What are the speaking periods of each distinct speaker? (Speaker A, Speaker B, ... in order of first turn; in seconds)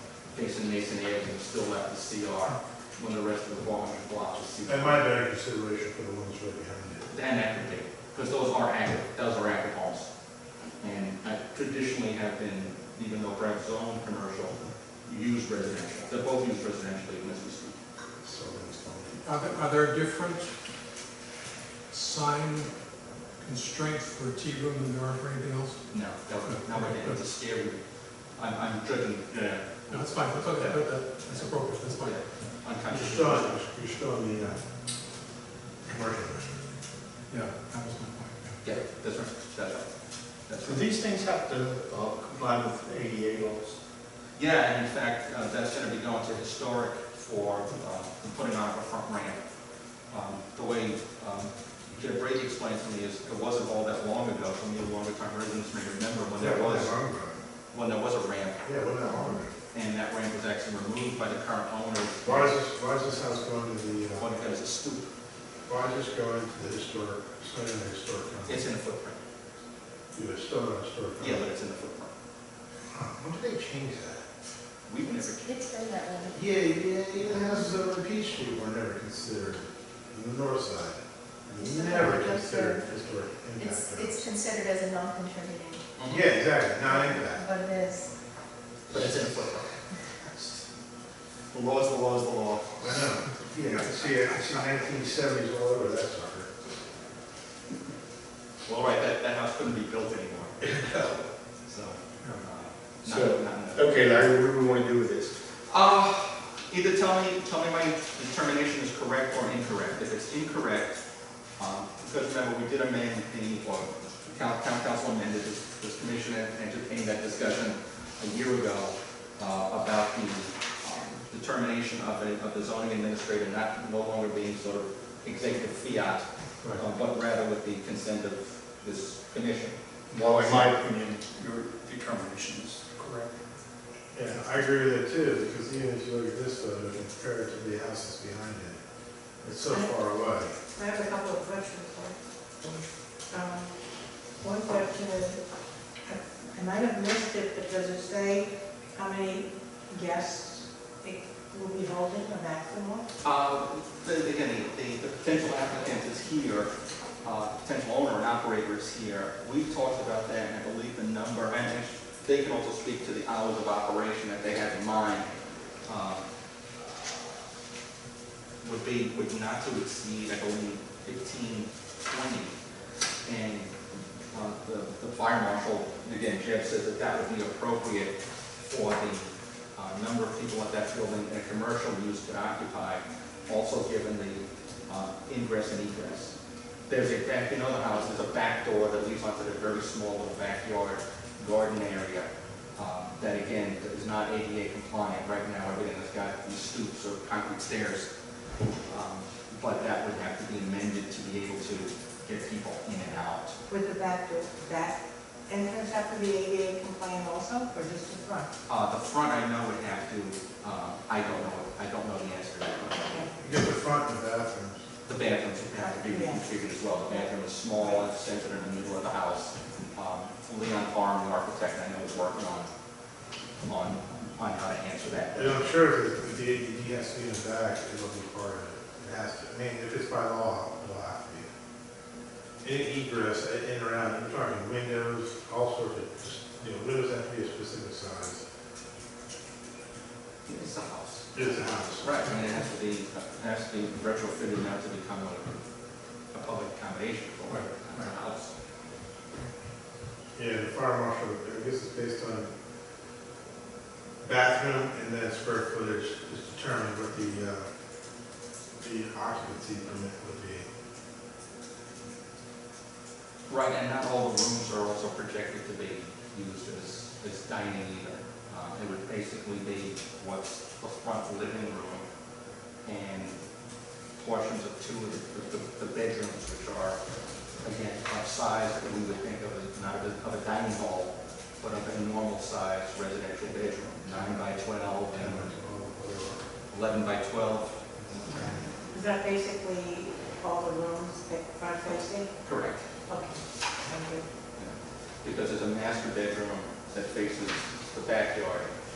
Speaker A: 0.3-5.1, 7.1-10.1, 10.8-17.8, 25.9-27.8, 28.4-33.5, 38.6-39.9, 40.5-40.9, 44.4-49.4, 50.1-57.0, 57.7-58.6, 59.7-62.5, 64.2-65.1, 68.5-69.2, 71.2-72.1, 74.9-75.5, 86.0-86.3, 88.9-89.7, 98.7-104.2, 105.7-111.0, 111.6-129.8, 153.2-156.7, 157.2-165.3, 165.8-166.3, 168.6-172.6, 173.2-173.7, 174.3-186.3, 186.9-198.1, 198.9-203.6, 208.7-213.2, 215.1-222.7, 223.7-225.7, 240.4-245.6, 246.3-248.5, 263.5-272.0, 272.9-273.4, 274.2-277.0, 277.6-285.5, 286.7-288.5, 292.4-292.8, 294.6-298.7
Speaker B: 4.7-7.1, 18.2-19.2, 32.9-34.6, 35.9-36.6, 56.4-57.4, 58.6-59.5, 62.2-64.2, 65.7-68.6, 70.1-71.4, 72.9-74.2, 76.3-84.2, 86.1-87.5, 92.8-96.5, 134.1-138.8, 139.4-140.5, 213.4-214.8, 225.3-231.4, 232.6-238.4, 241.3-242.2, 250.4-252.5, 254.2-257.6, 258.8-260.6, 284.1-284.5, 285.1-286.4, 288.2-288.6
Speaker C: 19.2-20.5, 21.9-27.2, 29.9-32.2, 37.3-38.5
Speaker D: 40.6-43.8, 88.9-89.3, 91.5-92.8, 103.0-105.3, 130.1-133.3
Speaker E: 59.1-59.4, 75.0-76.5, 81.5-82.9, 83.6-85.8, 86.8-88.1
Speaker F: 140.7-142.1, 143.3-143.7, 144.4-145.4, 146.1-153.0, 203.7-208.5, 215.7-216.4, 288.9-292.3, 293.1-294.2